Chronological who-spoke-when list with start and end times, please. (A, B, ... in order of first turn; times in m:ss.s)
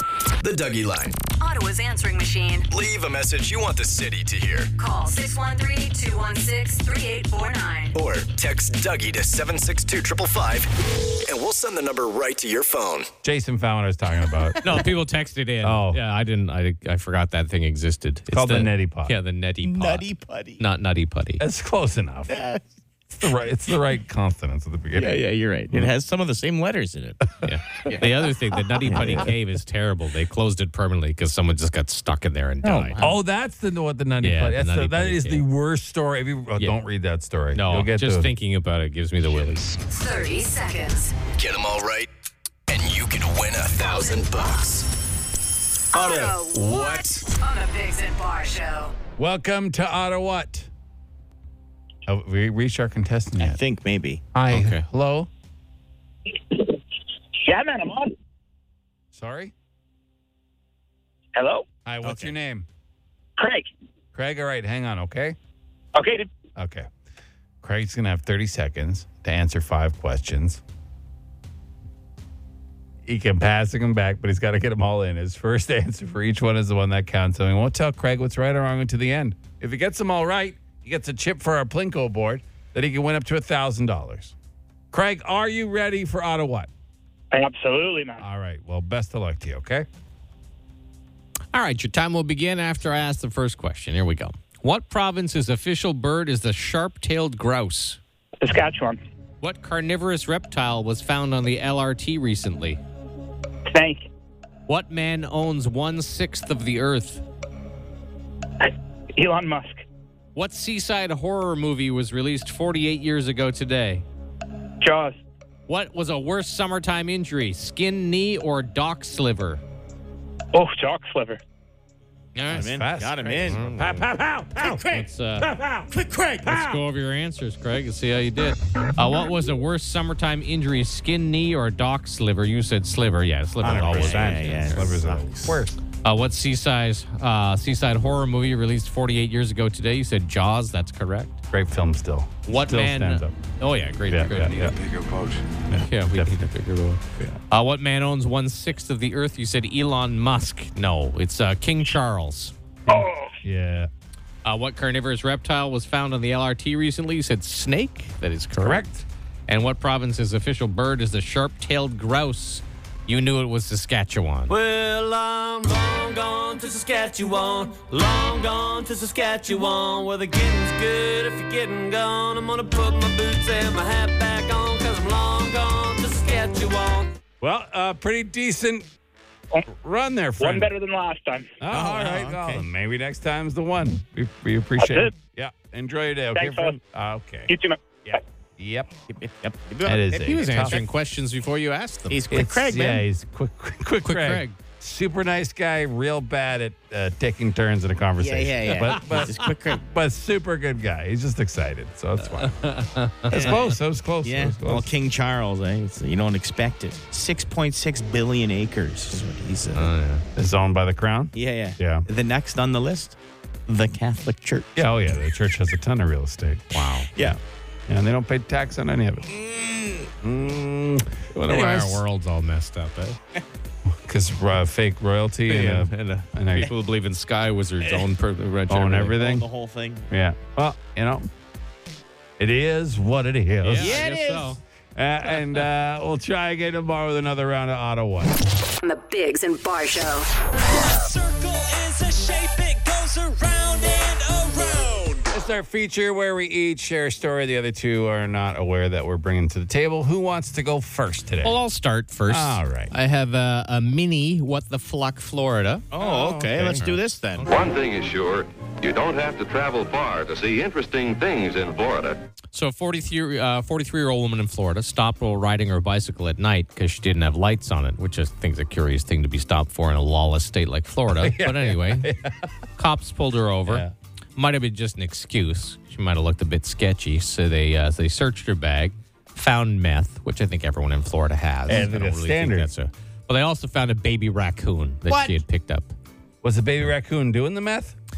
0:00.4-0:01.2 A
0:01.4-0:02.7 B
0:02.7-0:04.7 A
0:04.8-0:08.0 B
0:08.0-0:13.1 A
0:13.2-0:14.9 C
0:14.6-0:20.0 D
0:15.6-0:16.0 C
0:18.3-0:19.2 C
0:19.6-0:20.6 E
0:20.6-0:21.4 D
0:21.4-0:22.4 C
0:22.3-0:22.7 E
0:23.1-0:25.2 C
0:24.9-0:27.3 E
0:27.4-0:33.1 D
0:28.8-0:29.3 E
0:28.9-0:29.3 C
0:32.6-0:33.2 E
0:33.0-0:38.3 C
0:34.2-0:35.4 D
0:37.5-0:39.8 D
0:39.9-0:41.2 B
0:41.3-0:42.1 A
0:42.7-0:44.9 A
0:43.8-0:44.4 B
0:45.9-0:47.2 A
0:45.9-0:48.9 B
0:49.2-0:50.7 C
0:52.1-0:53.6 C
0:53.4-0:54.2 E
0:54.3-0:55.3 C
0:54.5-0:54.8 D
0:56.5-0:56.8 F
0:57.4-0:58.1 F
0:59.1-0:59.5 C
1:01.4-1:01.6 F
1:01.9-1:02.7 C
1:02.0-1:02.4 E
1:03.4-1:03.7 F
1:04.1-1:05.4 C
1:06.0-1:06.3 F
1:06.6-1:06.9 C
1:07.6-1:10.6 C
1:13.0-1:24.4 C
1:24.9-1:26.7 C
1:27.3-1:28.2 F
1:28.2-1:29.9 C
1:31.5-1:38.0 D
1:38.4-1:39.0 F
1:39.4-1:42.8 D
1:43.7-1:44.1 F
1:44.7-1:47.2 D
1:48.6-1:49.8 F
1:50.4-1:54.0 D
1:54.8-1:55.2 F
1:55.7-1:59.6 D
2:00.5-2:01.4 F
2:02.4-2:02.7 D
2:02.5-2:04.8 C
2:02.5-2:03.8 E
2:03.5-2:04.0 D
2:04.6-2:05.1 E
2:04.9-2:05.5 D
2:05.4-2:05.9 C
2:05.9-2:06.8 E
2:06.4-2:14.9 D
2:13.6-2:15.6 E
2:13.6-2:15.8 C
2:16.0-2:21.4 D
2:21.5-2:23.4 C
2:22.5-2:24.7 D
2:24.1-2:24.8 C
2:25.7-2:26.5 C
2:25.8-2:32.5 D
2:32.9-2:33.9 C
2:34.4-2:38.8 D
2:38.6-2:39.1 C
2:39.5-2:44.5 D
2:44.5-2:57.2 G
2:57.4-2:58.9 C
2:59.7-3:00.7 C
3:00.4-3:01.5 F
3:01.6-3:07.5 C
3:01.7-3:02.7 E
3:04.8-3:05.1 F
3:06.3-3:06.8 F
3:07.5-3:08.2 F
3:08.0-3:08.9 C
3:09.1-3:10.8 E
3:09.8-3:10.8 C
3:10.2-3:12.2 D
3:12.1-3:13.0 E
3:12.3-3:22.7 C
3:14.0-3:14.6 D
3:18.2-3:19.8 E
3:22.4-3:23.6 D
3:23.3-3:24.9 C
3:23.3-3:29.9 E
3:29.7-3:30.2 D
3:30.4-3:32.1 C
3:31.3-3:34.8 E
3:34.8-3:37.4 C
3:36.7-3:37.1 D
3:37.1-3:37.4 E
3:37.9-3:39.3 C
3:39.3-3:40.1 E
3:40.2-3:42.0 C
3:41.3-3:43.2 D
3:43.9-3:46.7 C
3:45.5-3:49.2 D
3:48.7-3:49.4 C
3:49.1-3:50.1 E
3:50.1-3:51.3 C
3:52.4-3:54.0 C
3:53.6-3:54.6 D
3:53.8-3:54.6 E
3:55.0-3:58.3 C
3:58.8-4:00.3 B
4:00.6-4:05.3 G
4:05.3-4:11.6 C
4:11.4-4:17.7 D
4:12.3-4:12.9 C
4:15.9-4:17.5 E
4:17.5-4:22.2 H
4:22.5-4:32.1 D
4:31.1-4:32.5 C
4:32.8-4:33.8 D
4:33.7-4:33.9 C
4:34.4-4:45.9 D
4:41.7-4:42.7 C
4:45.1-4:45.4 E
4:46.4-4:48.0 C